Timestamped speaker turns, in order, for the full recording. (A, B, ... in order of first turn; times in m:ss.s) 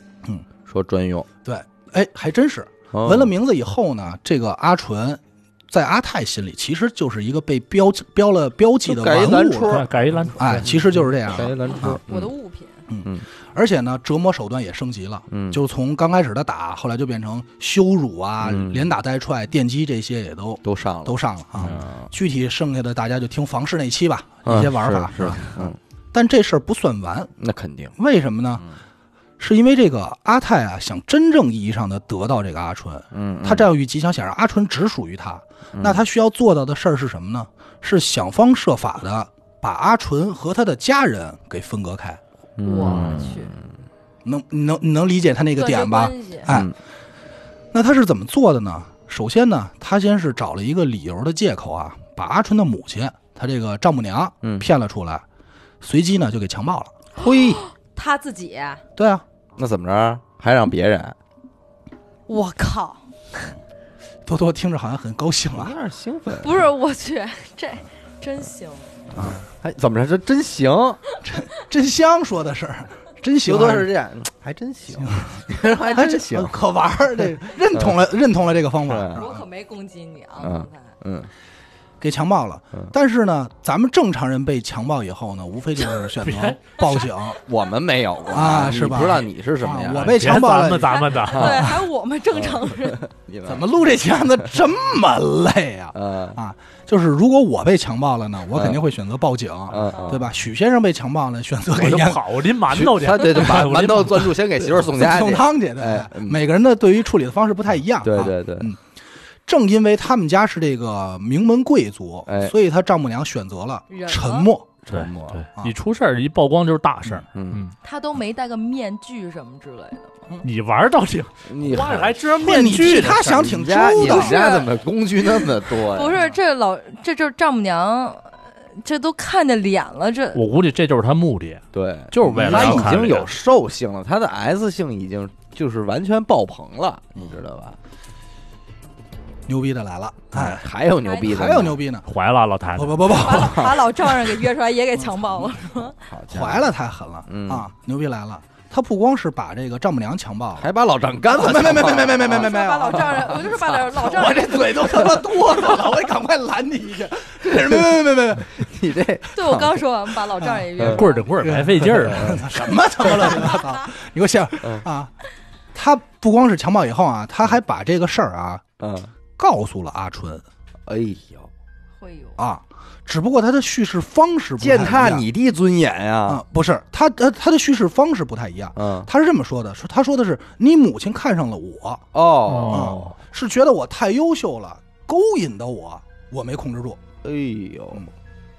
0:00.6-0:01.3 A
0:01.4-0:12.0 B
0:02.9-0:03.3 A
0:08.8-0:09.9 A
0:09.6-0:10.9 C
0:11.2-0:12.3 A
0:12.0-0:12.8 D
0:12.9-0:27.3 B
0:15.3-0:15.6 A
0:18.4-0:18.9 A
0:20.6-0:22.1 A
0:24.4-0:25.8 A
0:27.4-0:27.9 A
0:28.0-0:28.6 B
0:29.4-0:42.2 B
0:33.1-0:33.7 A
0:35.7-0:36.0 A
0:42.6-0:43.6 A
0:42.6-0:43.5 D
0:44.2-0:46.7 B
0:45.6-0:46.6 D
0:46.5-0:46.7 A
0:47.7-0:55.2 B
0:55.8-0:56.9 B
0:57.2-0:57.6 A
0:57.2-0:58.8 D
0:59.0-0:59.2 B
0:59.6-1:01.2 A
1:02.3-1:03.0 D
1:04.2-1:05.7 B
1:05.5-1:06.6 A
1:06.4-1:08.9 D
1:09.2-1:09.4 B
1:09.2-1:11.0 A
1:11.2-1:13.9 B
1:13.4-1:16.6 A
1:15.0-1:19.4 B
1:15.6-1:16.0 D
1:18.8-1:19.2 A
1:19.1-1:20.9 D
1:20.4-1:21.3 A
1:22.0-1:27.4 B
1:26.2-1:26.9 C
1:27.4-1:30.3 A
1:28.3-1:31.2 B
1:29.9-1:31.8 C
1:30.8-1:33.1 D
1:31.3-1:31.8 A
1:32.3-1:33.7 A
1:33.4-1:42.5 B
1:35.9-1:36.4 A
1:38.5-1:38.8 A
1:39.7-1:40.3 A
1:41.7-1:44.3 C
1:42.7-1:46.4 A
1:43.6-1:43.9 B
1:44.6-1:48.8 B
1:48.0-1:48.7 A
1:49.4-1:54.7 B
1:52.3-1:52.5 A
1:53.9-1:54.5 D
1:54.8-1:55.4 A
1:54.9-1:57.7 C
1:57.3-1:57.6 A
1:57.8-2:00.2 D
2:00.4-2:03.4 C
2:01.4-2:06.2 A
2:02.4-2:04.4 B
2:04.0-2:10.4 D
2:10.3-2:13.3 C
2:11.7-2:17.8 A
2:12.3-2:12.9 B
2:19.5-2:20.6 B
2:20.3-2:21.8 A
2:21.0-2:21.5 D
2:21.2-2:22.0 B
2:22.0-2:23.0 C
2:22.7-2:24.0 B
2:23.0-2:26.0 D
2:25.0-2:25.6 B
2:26.0-2:26.7 A
2:26.3-2:30.7 B
2:27.3-2:27.7 A
2:30.6-2:32.4 A
2:31.3-2:38.5 B
2:32.1-2:34.9 D
2:33.2-2:33.4 A
2:38.4-2:39.8 A
2:39.3-2:41.6 D
2:40.4-2:40.7 B
2:40.8-2:41.0 A
2:40.9-2:42.4 C
2:41.4-2:45.1 B
2:42.0-2:42.4 A
2:43.2-2:43.8 D
2:45.7-2:48.6 B
2:48.8-2:49.1 A
2:49.4-2:50.4 B
2:50.9-2:51.5 A
2:52.0-2:52.4 D
2:52.4-2:55.2 B
2:54.6-2:56.4 A
2:56.3-3:02.0 B
2:58.8-2:59.1 A
3:02.1-3:03.0 A
3:02.5-3:03.2 C
3:02.7-3:07.0 B
3:07.2-3:08.1 A